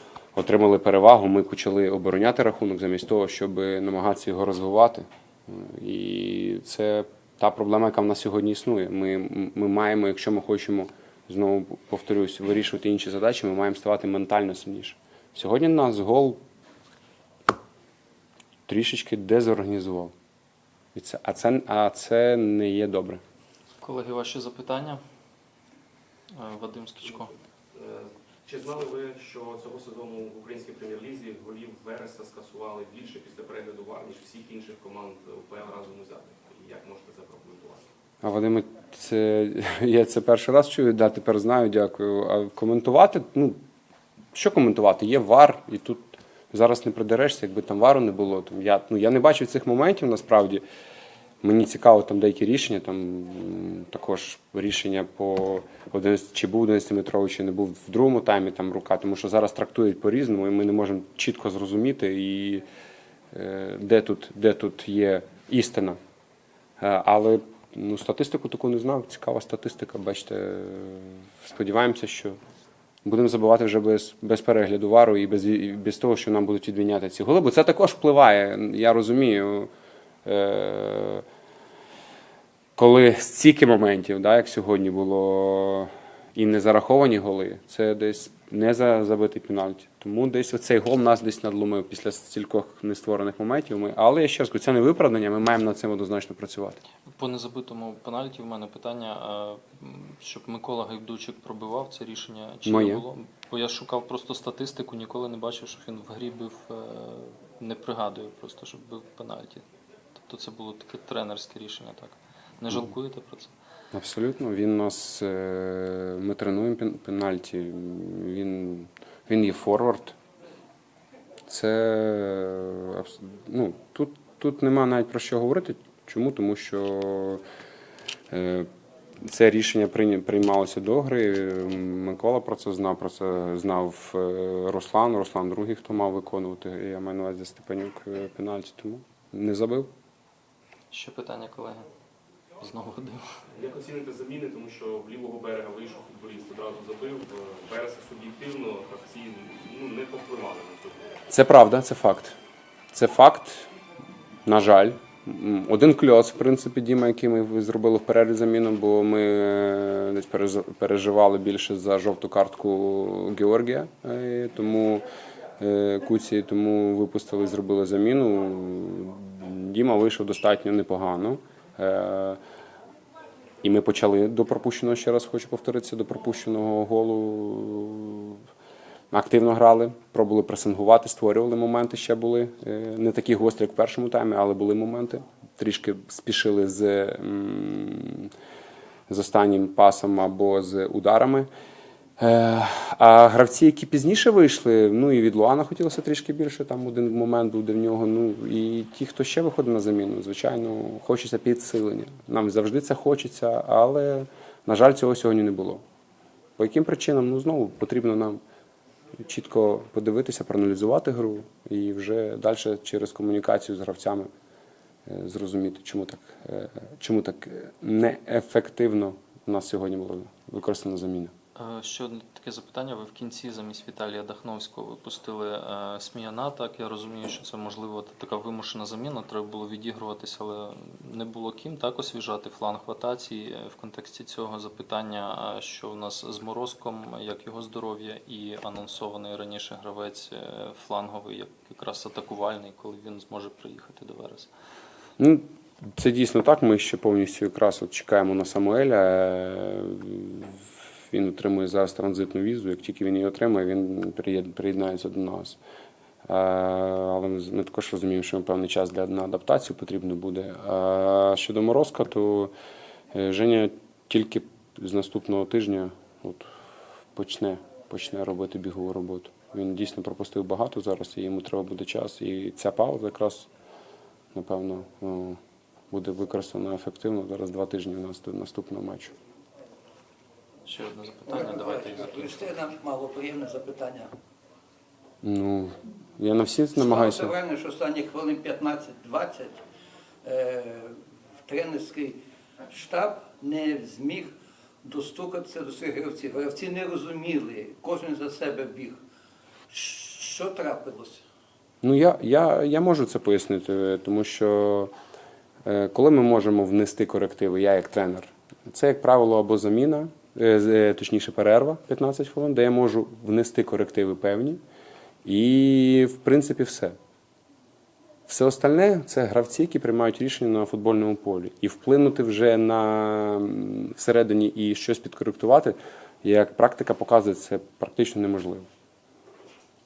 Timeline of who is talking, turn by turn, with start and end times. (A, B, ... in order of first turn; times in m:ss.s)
0:00.3-0:16.4 A
0:18.7-0:20.1 A
0:20.9-0:23.2 A
0:23.8-0:25.0 B
0:26.3-0:27.3 B
0:27.7-0:37.8 C
0:38.2-0:43.6 A
0:44.3-0:50.6 A
0:51.4-1:02.6 A
1:03.3-1:06.0 A
1:06.8-1:12.4 A
1:13.0-1:19.7 A
1:20.2-1:21.2 A
1:22.8-1:36.8 A
1:37.1-1:49.6 B
1:42.6-1:43.0 A
1:50.1-1:53.5 B
1:53.9-2:00.2 A
2:01.5-2:07.4 A
2:08.3-2:08.7 A
2:09.2-2:19.9 A
2:20.9-2:21.9 B
2:22.6-2:23.2 B
2:23.5-2:31.1 C
2:31.3-2:32.4 A
2:32.9-2:33.7 A
2:34.4-2:45.0 A
2:45.6-2:52.4 A
2:53.6-2:58.4 A
2:59.1-3:08.3 A
3:09.1-3:11.5 A
3:12.2-3:25.8 A
3:26.6-3:28.4 A
3:29.2-3:34.3 A
3:35.0-3:41.3 A
3:41.6-4:04.5 B
4:05.2-4:15.6 A
4:16.3-4:22.5 A
4:23.1-4:26.5 A
4:27.1-4:33.5 A
4:34.3-4:35.4 A
4:35.9-4:39.1 A
4:40.6-4:42.5 B
4:41.3-4:44.1 D
4:45.2-4:47.3 A
4:46.7-4:49.6 D
4:50.2-4:59.0 D
4:59.7-5:01.2 D
5:01.8-5:04.9 A
5:05.6-5:14.6 A
5:15.2-5:17.0 A
5:18.3-5:28.7 A